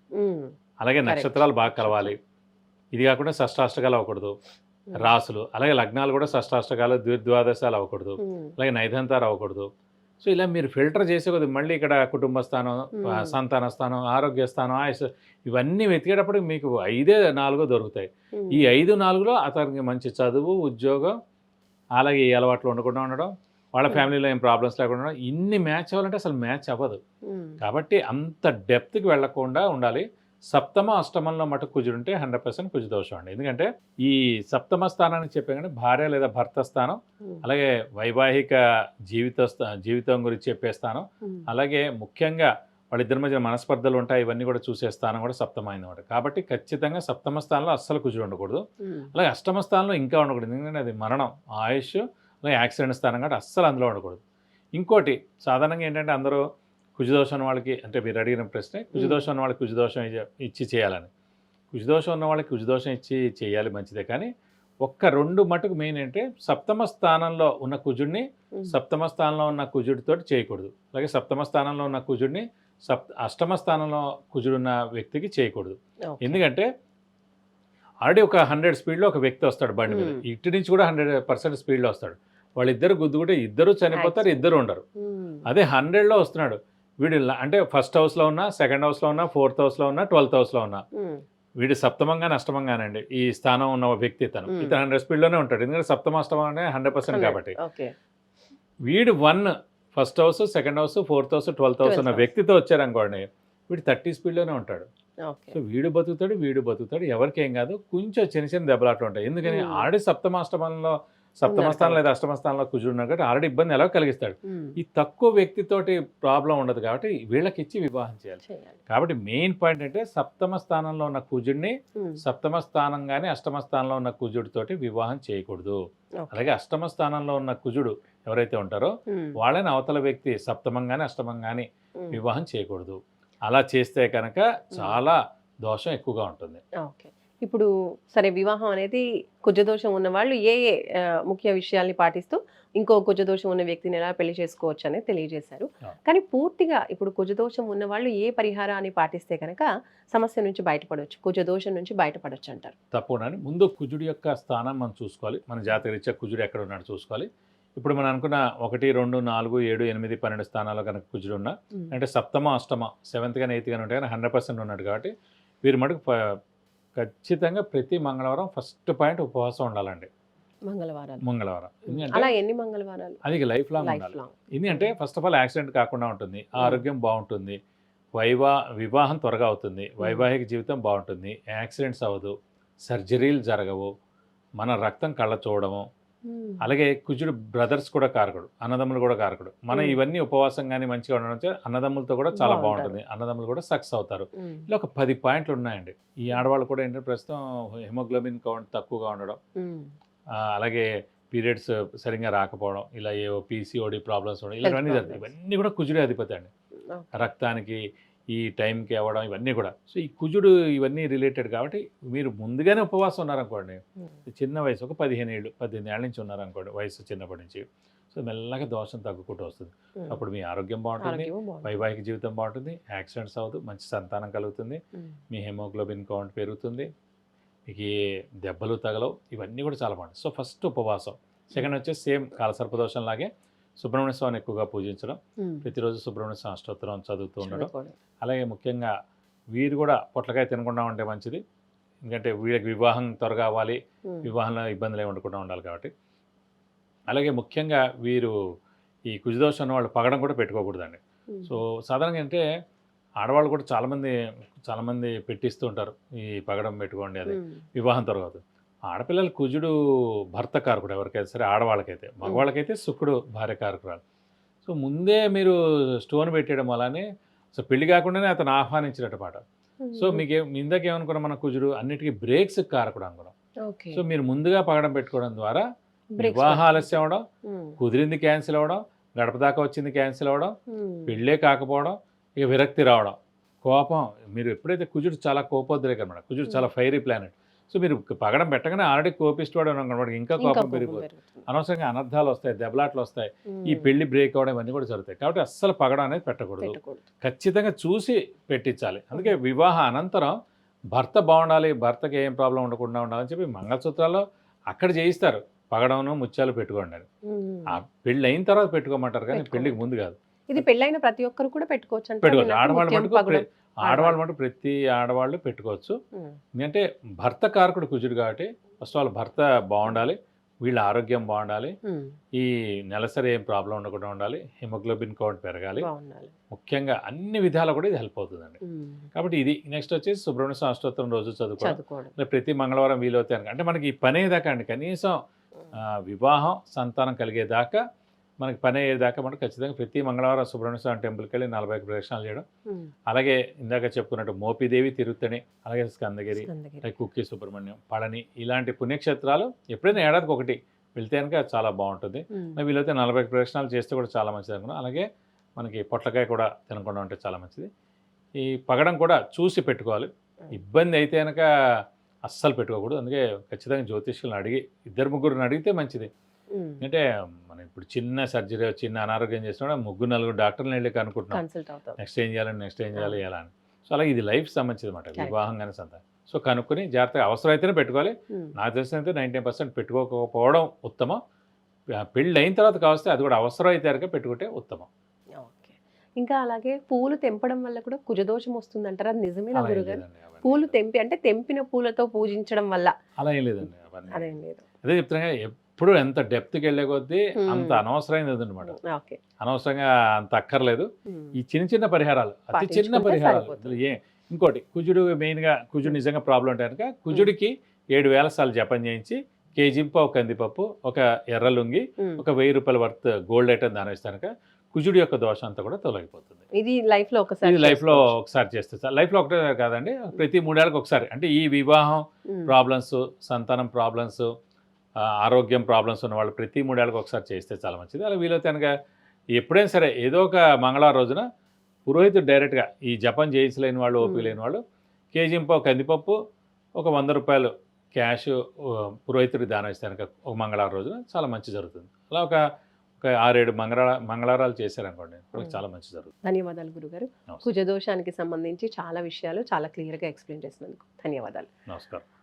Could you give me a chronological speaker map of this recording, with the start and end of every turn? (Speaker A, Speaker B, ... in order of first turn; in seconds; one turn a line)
Speaker A: 0.2-0.5
Speaker B: 0.8-2.2
Speaker A: 1.0-2.1
Speaker B: 2.9-4.3
Speaker B: 4.9-9.7
Speaker A: 8.2-8.5
Speaker B: 10.2-21.1
Speaker A: 12.9-13.3
Speaker A: 18.4-18.7
Speaker B: 21.9-27.0
Speaker A: 27.3-27.6
Speaker B: 27.6-54.2
Speaker A: 48.8-49.1
Speaker B: 54.7-56.4
Speaker B: 57.0-61.1
Speaker A: 58.9-59.2
Speaker B: 61.7-64.3
Speaker B: 64.8-76.7
Speaker A: 76.1-76.4
Speaker B: 78.0-84.8
Speaker A: 79.9-80.2
Speaker A: 83.9-84.5
Speaker A: 85.0-85.5
Speaker B: 85.5-90.8
Speaker A: 91.0-91.2
Speaker B: 91.6-97.6
Speaker A: 94.5-94.8
Speaker A: 97.0-97.9
Speaker B: 98.9-104.9
Speaker A: 101.8-102.3
Speaker A: 105.2-105.6
Speaker B: 105.5-125.8
Speaker A: 109.4-109.9
Speaker A: 111.4-112.0
Speaker A: 114.5-114.8
Speaker A: 118.4-118.8
Speaker A: 126.2-126.5
Speaker B: 126.3-136.6
Speaker A: 129.1-129.4
Speaker A: 134.7-135.0
Speaker A: 136.8-152.7
Speaker B: 152.9-165.1
Speaker B: 165.6-166.3
Speaker B: 166.9-170.1
Speaker A: 170.7-171.2
Speaker B: 171.2-172.3
Speaker A: 171.9-173.2
Speaker B: 173.2-177.6
Speaker A: 173.8-174.9
Speaker A: 176.6-176.8
Speaker B: 178.2-182.3
Speaker A: 180.0-180.3
Speaker B: 182.8-183.9
Speaker B: 184.6-185.8
Speaker A: 186.3-186.7
Speaker B: 186.6-199.4
Speaker A: 189.7-190.0
Speaker A: 192.3-193.0
Speaker A: 194.4-194.7
Speaker A: 199.6-199.9
Speaker B: 200.4-206.5
Speaker A: 204.6-205.2
Speaker A: 206.9-207.2
Speaker B: 207.1-207.8
Speaker B: 208.3-224.8
Speaker A: 221.0-221.8
Speaker B: 225.3-226.9
Speaker B: 227.7-237.7
Speaker A: 235.4-235.7
Speaker A: 237.4-237.9
Speaker B: 238.2-238.9
Speaker B: 239.5-241.4
Speaker B: 242.1-245.9
Speaker B: 247.1-248.3
Speaker B: 249.1-252.4
Speaker B: 253.2-259.8
Speaker A: 257.3-257.6
Speaker B: 260.3-264.0
Speaker B: 264.6-269.4
Speaker A: 269.8-270.2
Speaker B: 269.9-273.3
Speaker A: 273.6-274.0
Speaker B: 273.9-275.6
Speaker A: 276.1-277.8
Speaker B: 276.2-277.2
Speaker B: 277.8-280.5
Speaker A: 280.7-281.2
Speaker B: 281.1-300.3
Speaker A: 290.4-291.4
Speaker A: 293.5-293.9
Speaker A: 296.6-297.0
Speaker A: 299.1-299.4
Speaker B: 300.9-307.1
Speaker A: 307.3-307.8
Speaker B: 307.7-310.6
Speaker A: 309.3-309.8
Speaker A: 310.5-314.2
Speaker B: 312.2-315.9
Speaker B: 316.6-321.7
Speaker A: 321.8-322.1
Speaker B: 322.3-325.9
Speaker A: 325.8-326.3
Speaker B: 326.5-328.6
Speaker A: 328.6-329.1
Speaker B: 329.1-335.2
Speaker A: 331.6-332.1
Speaker B: 335.7-337.8
Speaker B: 338.4-342.4
Speaker B: 343.1-355.0
Speaker A: 346.3-346.9
Speaker A: 352.3-352.6
Speaker B: 355.6-357.7
Speaker B: 358.4-361.5
Speaker B: 362.3-366.1
Speaker A: 366.5-366.8
Speaker B: 366.8-371.4
Speaker A: 371.3-372.0
Speaker B: 372.0-381.2
Speaker A: 372.9-373.2
Speaker A: 375.1-375.4
Speaker B: 382.1-384.9
Speaker A: 385.4-392.9
Speaker B: 389.5-390.8
Speaker B: 393.2-394.3
Speaker A: 394.1-394.6
Speaker B: 394.8-398.8
Speaker A: 397.4-397.8
Speaker A: 398.6-399.2
Speaker B: 399.4-416.4
Speaker A: 401.1-401.4
Speaker A: 402.5-403.8
Speaker A: 416.5-418.1
Speaker B: 417.4-424.3
Speaker A: 422.3-422.5
Speaker B: 425.2-428.7
Speaker B: 429.3-431.2
Speaker B: 431.9-434.6
Speaker A: 434.0-434.4
Speaker B: 435.1-436.1
Speaker B: 436.8-442.4
Speaker B: 443.0-446.1
Speaker A: 446.2-451.5
Speaker B: 451.7-452.0